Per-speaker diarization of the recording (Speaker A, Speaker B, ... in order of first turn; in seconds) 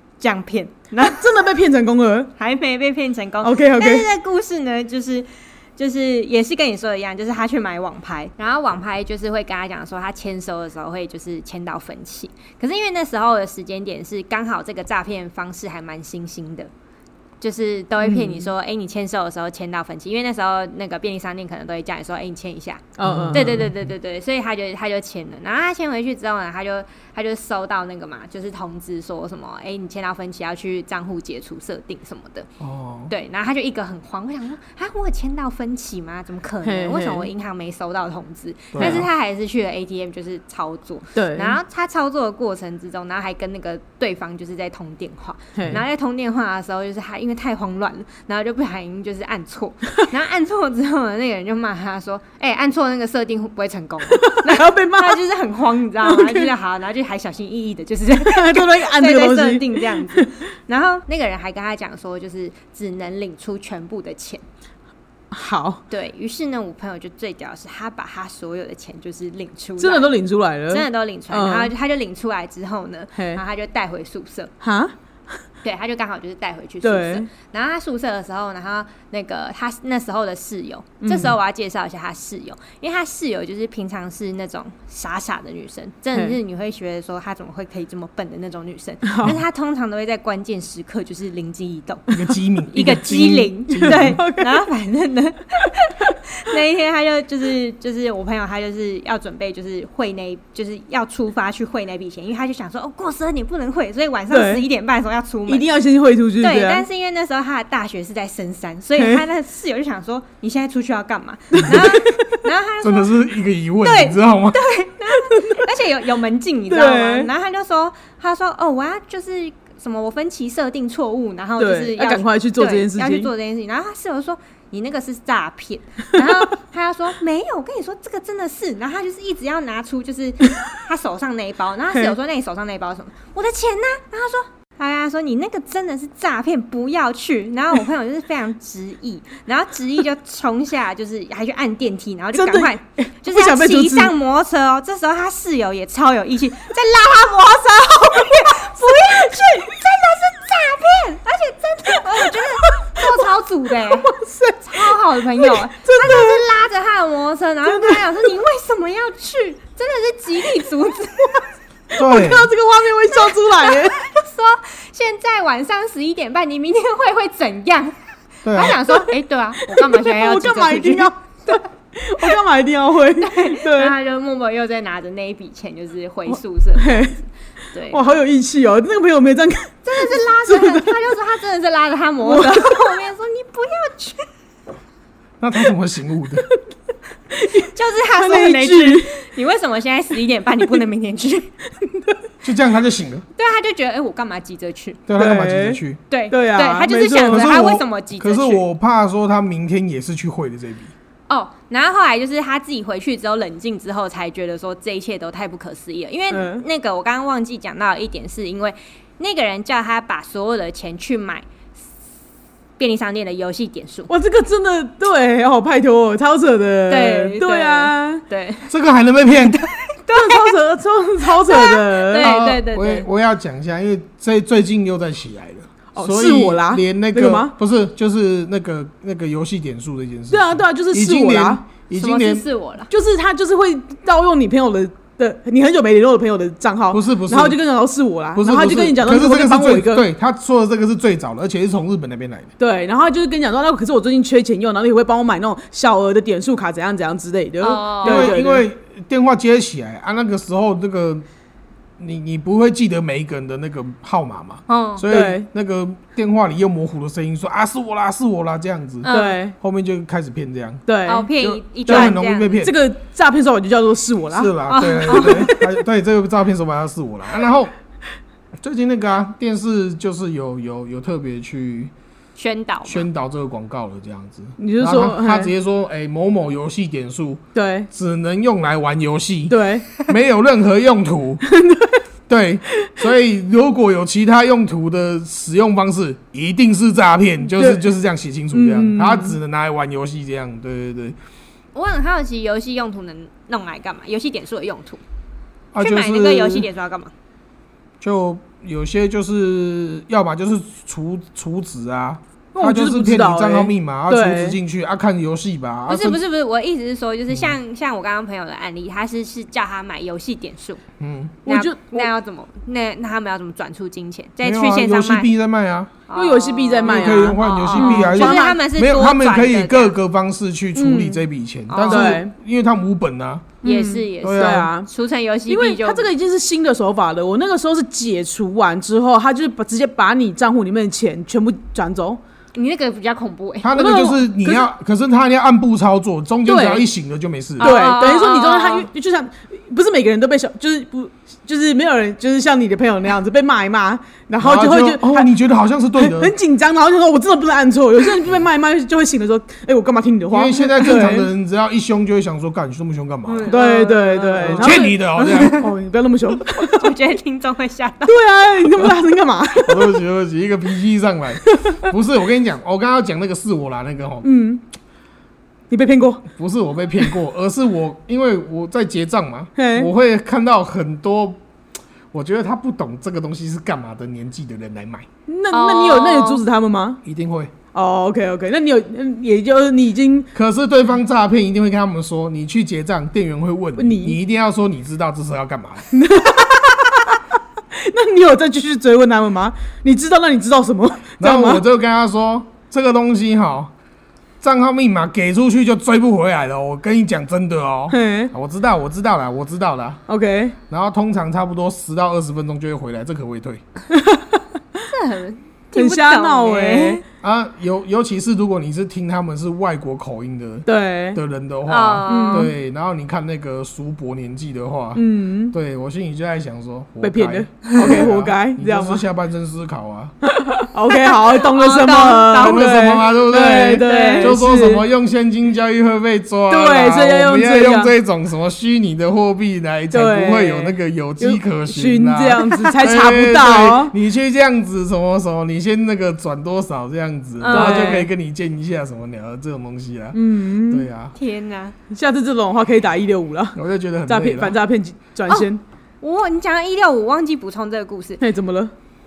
Speaker A: 0.2-1.3, 2.4-16.7, 17.4-32.5, 33.1-64.4, 65.9-70.1, 70.7-74.5, 75.6-92.1, 92.7-105.7, 106.4-113.2, 113.8-161.5, 163.1-167.9, 168.5-171.6, 173.2-178.1, 179.8-184.3, 187.6-191.5, 193.4-195.0, 196.1-198.6, 201.3-211.4, 212.8-214.1, 216.9-218.7, 219.5-220.5, 221.3-223.1, 231.9-232.9, 247.6-248.4, 254.7-255.1, 259.0-259.4, 261.1-262.5, 264.7-265.5, 272.4-273.1, 291.7-295.0, 295.8-297.1, 305.9-310.8, 311.5-315.3, 316.1-319.9, 321.7-322.2, 323.6-326.1, 332.5-333.9, 337.6-338.9, 353.3-355.6, 356.6-358.2, 375.5-376.4, 404.9-407.0, 411.7-412.5, 420.9-422.9, 423.7-424.4, 437.4-438.0, 441.1-441.7, 446.0-448.2
Speaker B: 1.0-2.3, 3.4-4.1, 18.0-18.5, 23.0-23.5, 36.6-37.3, 41.2-41.6, 45.5-45.8, 54.1-55.2, 56.0-56.5, 58.2-60.3, 65.3-65.8, 69.8-71.7, 73.2-73.4, 74.6-75.4, 76.8-77.3, 81.0-81.3, 89.1-89.4, 93.8-94.6, 104.3-104.6, 105.5-106.8, 109.0-109.2, 111.6-112.2, 116.7-117.3, 121.6-123.3, 142.3-144.1, 148.2-149.6, 152.2-153.2, 153.8-156.4, 157.7-158.1, 161.9-164.0, 169.7-173.9, 176.3-177.2, 177.9-181.0, 182.2-183.0, 187.3-189.2, 195.2-197.5, 206.3-206.6, 214.1-218.2, 220.1-222.3, 225.9-227.5, 230.3-231.6, 232.9-240.1, 242.6-248.6, 255.1-255.5, 259.1-259.6, 260.9-264.5, 265.1-265.6, 274.6-275.5, 277.6-277.9, 279.5-279.9, 281.5-282.0, 287.6-287.9, 288.5-289.4, 302.6-304.6, 311.5-312.1, 316.1-318.6, 320.8-321.2, 321.9-322.3, 323.6-324.9, 325.5-332.2, 333.8-334.7, 336.5-336.9, 337.6-345.3, 346.0-351.3, 353.5-356.9, 358.1-360.0, 361.5-361.8, 364.2-364.6, 365.7-366.3, 369.6-369.9, 375.3-377.0, 377.7-380.3, 383.8-384.2, 385.9-387.2, 387.7-391.6, 397.9-398.3, 400.1-400.6, 403.9-404.4, 405.8-407.0, 410.7-411.2, 412.1-412.5, 414.9-415.5, 417.0-419.0, 420.2-424.9, 426.5-427.9, 429.9-433.9, 437.5-438.1, 440.1-440.9, 441.9-445.6, 448.2-448.7
Speaker C: 23.0-23.9, 32.6-33.1, 38.7-39.1, 92.1-94.2, 112.8-114.6, 162.0-162.5, 168.4-168.8, 185.4-186.5, 192.4-193.3, 195.1-196.0, 197.2-200.9, 218.7-219.6, 222.2-232.4, 236.9-237.6, 238.3-242.5, 248.0-251.2, 252.0-259.1, 259.6-260.8, 261.9-262.7, 264.3-267.7, 268.6-271.9, 272.9-281.4, 282.3-291.2, 295.7-296.7, 298.0-306.2, 311.0-311.4, 314.4-315.9, 316.8-323.6, 324.2-324.7, 333.6-337.8, 344.4-346.3, 350.3-353.6, 354.4-355.7, 359.6-364.2, 366.4-371.4, 372.1-375.1, 377.1-377.5, 380.4-385.9, 391.2-393.7, 394.4-400.0, 400.7-403.6, 407.2-420.1, 422.4-441.1, 443.6-444.6